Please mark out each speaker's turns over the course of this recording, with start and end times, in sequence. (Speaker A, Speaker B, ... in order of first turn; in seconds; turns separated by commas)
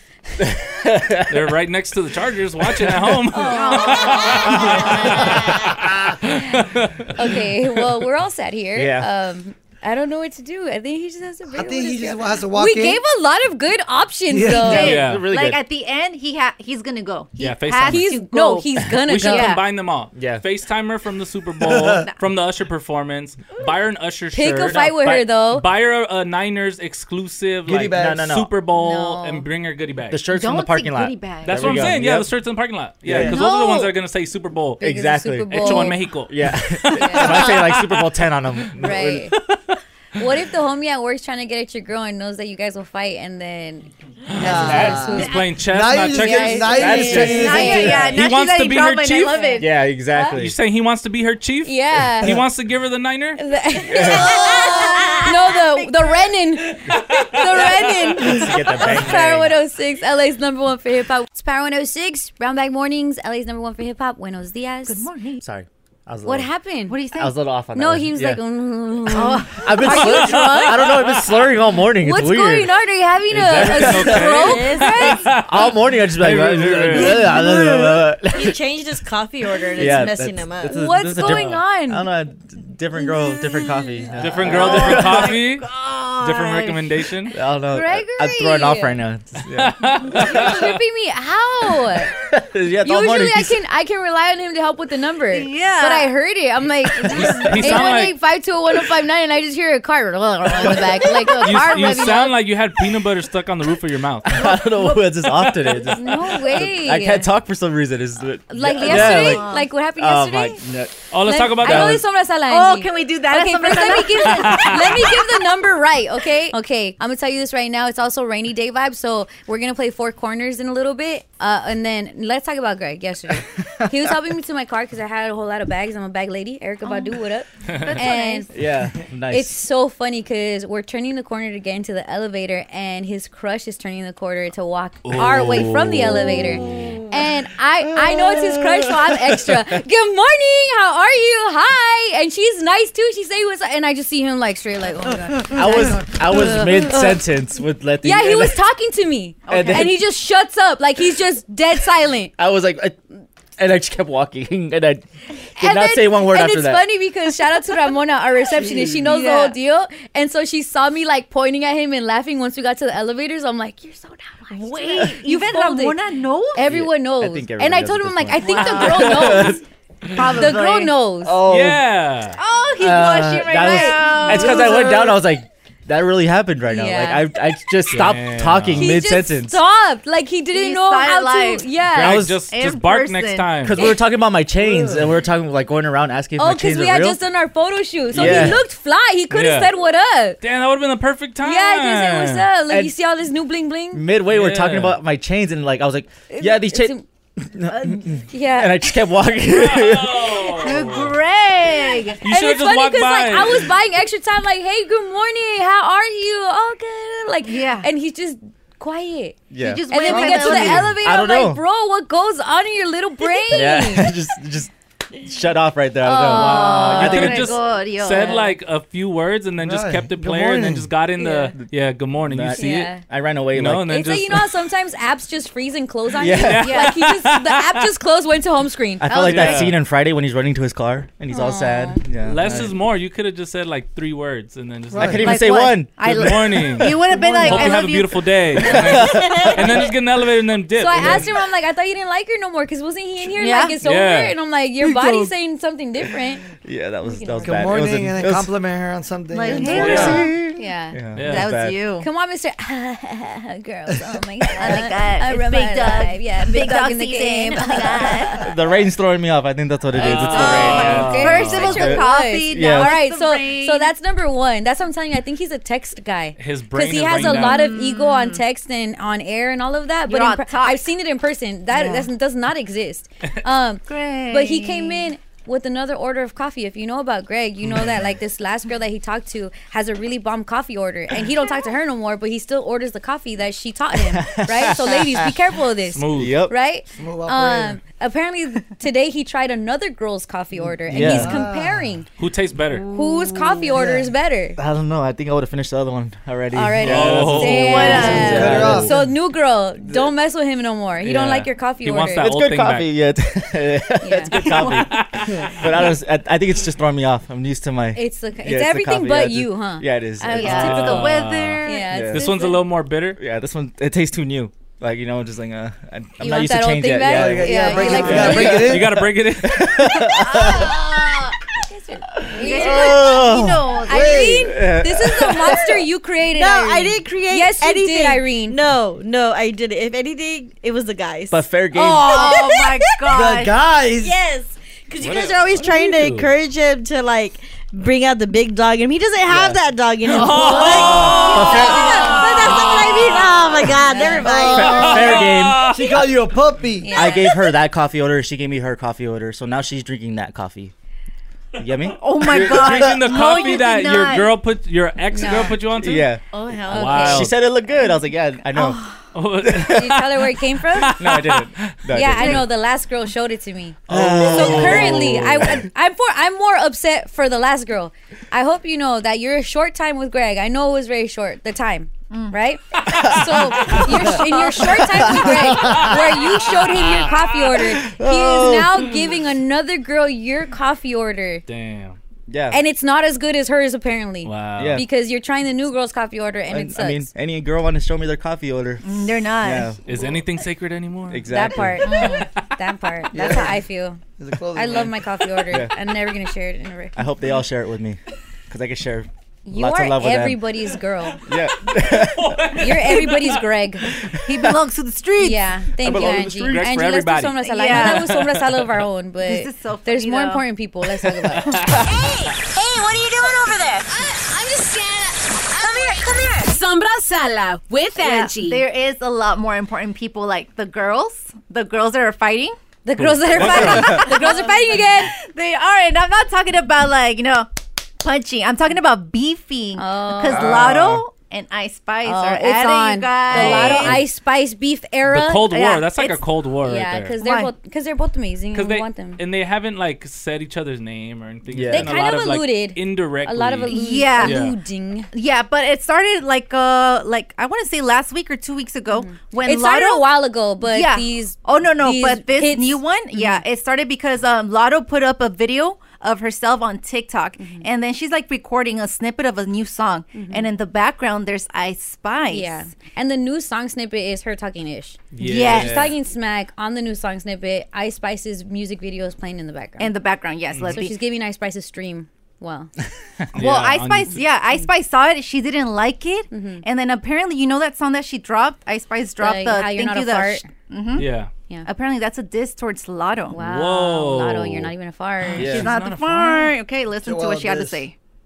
Speaker A: 0.4-1.5, Speaker B: 1.3-7.1, Speaker C: 3.3-5.2, Speaker D: 3.5-5.6, Speaker C: 6.2-15.0, Speaker A: 8.7-9.1, Speaker E: 11.5-13.0, Speaker E: 14.3-15.0, Speaker D: 14.6-19.6, Speaker A: 14.7-15.6, Speaker B: 14.7-15.2, Speaker B: 17.4-18.1, Speaker C: 17.9-19.6, Speaker B: 19.1-30.2, Speaker A: 20.1-20.4, Speaker E: 21.6-22.1, Speaker C: 24.3-25.6, Speaker E: 27.6-28.3, Speaker A: 27.9-28.5, Speaker C: 28.7-29.4, Speaker A: 30.1-32.3, Speaker D: 30.3-31.9, Speaker B: 31.4-34.9, Speaker A: 33.0-33.4, Speaker C: 33.3-33.9, Speaker A: 34.8-39.3, Speaker C: 34.8-36.0, Speaker B: 35.5-38.1, Speaker C: 36.9-37.6, Speaker C: 38.8-39.3, Speaker C: 40.1-43.9, Speaker B: 44.3-47.2, Speaker E: 44.4-48.2, Speaker C: 44.4-48.0, Speaker A: 44.5-45.2, Speaker A: 46.6-47.7, Speaker D: 47.2-49.7, Speaker B: 48.0-49.5, Speaker C: 49.3-50.4, Speaker A: 49.6-50.5, Speaker B: 50.4-53.4, Speaker C: 51.6-52.3, Speaker C: 53.4-65.1, Speaker A: 53.9-54.4, Speaker D: 54.0-56.0, Speaker B: 56.9-58.0, Speaker A: 58.1-59.5, Speaker D: 64.8-65.4, Speaker A: 65.4-66.5, Speaker C: 66.2-67.0, Speaker D: 66.9-67.3, Speaker A: 67.1-68.4, Speaker C: 67.7-71.0, Speaker D: 69.2-69.5, Speaker A: 69.5-72.7, Speaker B: 70.0-71.0, Speaker C: 72.0-75.3, Speaker B: 73.3-77.3, Speaker A: 73.7-74.2, Speaker F: 74.1-75.1, Speaker A: 75.4-78.6, Speaker F: 77.1-80.9, Speaker A: 79.8-85.3, Speaker C: 80.7-82.0, Speaker B: 84.2-85.7, Speaker D: 84.5-86.9, Speaker B: 86.2-87.4, Speaker A: 87.3-90.2, Speaker C: 87.7-89.0, Speaker B: 89.5-90.7, Speaker C: 90.1-92.1, Speaker A: 92.2-93.6, Speaker C: 92.8-102.3, Speaker D: 95.3-96.1, Speaker B: 97.1-98.2, Speaker B: 101.4-104.4, Speaker A: 104.3-110.9, Speaker C: 105.9-107.3, Speaker C: 108.5-110.6, Speaker F: 109.1-109.4, Speaker D: 109.1-109.5, Speaker B: 111.1-112.0, Speaker C: 111.2-128.5, Speaker A: 111.6-112.0, Speaker D: 112.5-115.2, Speaker B: 114.3-115.0, Speaker A: 123.8-124.2, Speaker D: 127.8-128.5, Speaker A: 128.5-129.6, Speaker C: 129.3-147.2, Speaker B: 135.1-136.6, Speaker A: 137.9-139.6, Speaker A: 145.4-148.6, Speaker C: 148.0-152.3, Speaker A: 149.5-150.0, Speaker A: 152.4-153.0, Speaker A: 153.6-155.0, Speaker A: 155.6-156.9, Speaker C: 155.6-166.0, Speaker D: 159.0-159.6, Speaker D: 164.5-166.7, Speaker C: 166.5-169.6, Speaker A: 166.7-169.6, Speaker D: 168.4-169.4, Speaker D: 170.1-171.0, Speaker C: 170.3-171.4, Speaker A: 171.2-171.8, Speaker B: 171.4-172.4, Speaker D: 172.4-175.0, Speaker A: 172.8-179.6, Speaker C: 172.9-174.9, Speaker C: 176.7-177.3, Speaker B: 177.9-179.0, Speaker C: 178.8-182.3, Speaker D: 180.5-181.7, Speaker A: 181.9-182.4, Speaker B: 181.9-183.8, Speaker D: 182.5-183.6, Speaker A: 183.6-187.2, Speaker C: 186.4-190.4, Speaker A: 188.1-188.6, Speaker B: 188.1-188.6, Speaker B: 189.3-189.7, Speaker B: 190.4-192.4, Speaker C: 191.4-194.0, Speaker A: 193.9-200.4, Speaker B: 194.3-195.0, Speaker C: 196.3-197.0, Speaker C: 198.3-199.0, Speaker B: 199.5-201.2, Speaker D: 200.5-202.2, Speaker C: 202.1-214.1, Speaker B: 202.2-203.7, Speaker D: 207.4-207.9, Speaker A: 209.5-211.6, Speaker D: 209.6-210.9, Speaker A: 213.5-217.6, Speaker C: 216.0-217.3, Speaker B: 216.3-222.9, Speaker D: 216.7-218.5, Speaker E: 219.6-220.3, Speaker A: 220.2-220.9, Speaker C: 221.2-221.5, Speaker A: 222.2-224.1, Speaker C: 222.6-223.0, Speaker B: 223.5-224.5, Speaker C: 223.9-229.6, Speaker A: 226.2-226.8, Speaker B: 226.4-227.9, Speaker D: 226.6-226.9, Speaker A: 229.0-232.8, Speaker D: 229.1-229.5, Speaker B: 229.2-229.8, Speaker C: 231.3-232.0, Speaker B: 232.2-235.5, Speaker E: 234.9-235.2, Speaker A: 234.9-237.7, Speaker D: 235.2-239.6, Speaker B: 236.0-241.3, Speaker A: 238.6-239.8, Speaker C: 240.8-246.4, Speaker D: 243.3-243.8, Speaker B: 243.8-244.4, Speaker A: 246.6-248.5, Speaker C: 247.1-247.5, Speaker E: 247.4-250.3, Speaker D: 249.3-250.3, Speaker A: 249.6-251.8, Speaker B: 249.7-250.3, Speaker C: 250.5-251.0, Speaker B: 251.2-251.5, Speaker D: 251.3-252.1, Speaker C: 252.0-258.4, Speaker D: 254.5-258.5, Speaker A: 258.4-262.9, Speaker B: 259.9-261.9, Speaker C: 260.0-292.1, Speaker D: 260.2-263.9, Speaker B: 266.4-267.7, Speaker D: 267.2-268.4, Speaker D: 270.1-270.8, Speaker D: 271.7-272.1, Speaker D: 273.9-275.1, Speaker A: 283.9-285.3, Speaker B: 285.9-286.4, Speaker A: 286.1-286.5, Speaker E: 287.0-287.8, Speaker E: 290.7-291.9, Speaker A: 290.9-291.4, Speaker B: 292.2-292.9, Speaker C: 292.9-294.6, Speaker A: 293.0-293.8, Speaker E: 293.7-294.1, Speaker A: 294.6-298.9, Speaker C: 296.5-302.3, Speaker B: 296.8-298.7, Speaker D: 297.5-298.5, Speaker E: 298.1-299.1, Speaker B: 301.0-302.9, Speaker A: 302.2-311.0, Speaker C: 304.0-304.3, Speaker B: 304.3-305.9, Speaker C: 307.9-312.6, Speaker D: 310.3-311.9, Speaker B: 310.4-313.2, Speaker A: 311.9-312.3, Speaker A: 313.1-320.9, Speaker C: 316.2-318.7, Speaker E: 317.0-319.0, Speaker B: 317.9-320.0, Speaker C: 320.2-320.8, Speaker D: 320.4-321.1, Speaker C: 321.6-323.2, Speaker A: 322.4-325.8, Speaker D: 322.4-324.4, Speaker E: 322.7-322.9, Speaker C: 323.8-328.6, Speaker E: 323.9-324.5, Speaker F: 326.3-331.4, Speaker A: 331.3-332.4, Speaker D: 331.7-333.6, Speaker F: 332.0-333.1, Speaker E: 333.1-334.2, Speaker F: 334.0-345.0, Speaker B: 335.0-336.3, Speaker A: 339.3-339.6, Speaker B: 340.0-342.9, Speaker C: 340.5-343.2, Speaker A: 340.7-342.0, Speaker D: 341.3-342.7, Speaker C: 343.8-344.7, Speaker E: 344.2-347.1, Speaker A: 344.4-345.7, Speaker B: 344.7-345.9, Speaker C: 346.8-347.3, Speaker A: 346.9-350.7, Speaker A: 351.6-353.3, Speaker D: 352.0-354.3, Speaker B: 352.2-356.1, Speaker C: 355.1-355.6, Speaker A: 355.7-356.2, Speaker F: 356.3-357.1, Speaker B: 356.7-357.4, Speaker C: 356.7-357.3, Speaker A: 356.9-358.8, Speaker B: 359.1-360.2, Speaker A: 359.4-359.9, Speaker C: 359.7-361.0, Speaker B: 360.7-362.3, Speaker A: 360.9-362.4, Speaker C: 361.9-381.4, Speaker B: 363.9-365.6, Speaker A: 363.9-365.6, Speaker D: 372.1-372.4, Speaker B: 372.9-373.9, Speaker A: 374.8-375.8, Speaker B: 375.1-377.6, Speaker A: 377.9-378.9, Speaker B: 381.5-382.0, Speaker A: 382.3-382.6, Speaker C: 382.5-387.1, Speaker B: 384.2-384.8, Speaker A: 384.6-384.8, Speaker A: 386.5-389.8, Speaker D: 388.8-389.7, Speaker B: 389.9-391.3, Speaker A: 391.1-391.9, Speaker C: 391.3-394.0, Speaker D: 391.8-392.2, Speaker E: 393.1-393.6, Speaker E: 394.2-395.0, Speaker C: 394.5-396.9, Speaker A: 396.9-400.4, Speaker C: 399.4-401.2, Speaker A: 401.2-402.4, Speaker B: 401.7-403.4, Speaker C: 402.6-403.8, Speaker D: 404.2-405.5, Speaker C: 405.2-411.4, Speaker B: 405.8-408.7, Speaker A: 405.8-406.5, Speaker D: 407.4-408.1, Speaker D: 409.2-410.4, Speaker B: 411.3-411.8, Speaker G: 411.8-418.6, Speaker D: 418.0-422.6, Speaker C: 422.8-425.1, Speaker B: 423.0-424.0, Speaker D: 423.3-427.5, Speaker D: 428.0-434.0, Speaker C: 429.8-430.5, Speaker B: 430.4-430.8, Speaker A: 430.4-431.0, Speaker C: 432.0-435.7, Speaker B: 433.3-434.0, Speaker B: 435.1-437.1, Speaker D: 435.5-436.2, Speaker C: 436.6-439.2, Speaker D: 437.2-437.5, Speaker B: 438.5-444.6, Speaker A: 441.5-441.9, Speaker C: 441.7-445.1, Speaker D: 443.7-444.5, Speaker D: 445.1-450.1, Speaker C: 448.9-453.4, Speaker D: 450.6-462.7, Speaker C: 457.4-457.7, Speaker C: 460.1-460.5, Speaker C: 462.3-469.9, Speaker B: 465.1-465.9, Speaker D: 465.2-465.9, Speaker D: 469.8-470.9, Speaker B: 470.5-470.8, Speaker C: 470.7-472.7, Speaker B: 473.3-474.2, Speaker D: 473.4-481.1, Speaker C: 476.3-476.6, Speaker C: 479.2-480.5, Speaker B: 480.9-481.3, Speaker D: 481.6-483.4, Speaker C: 483.3-485.6, Speaker B: 483.4-486.5, Speaker A: 485.4-485.7, Speaker D: 485.4-487.9, Speaker E: 487.0-487.8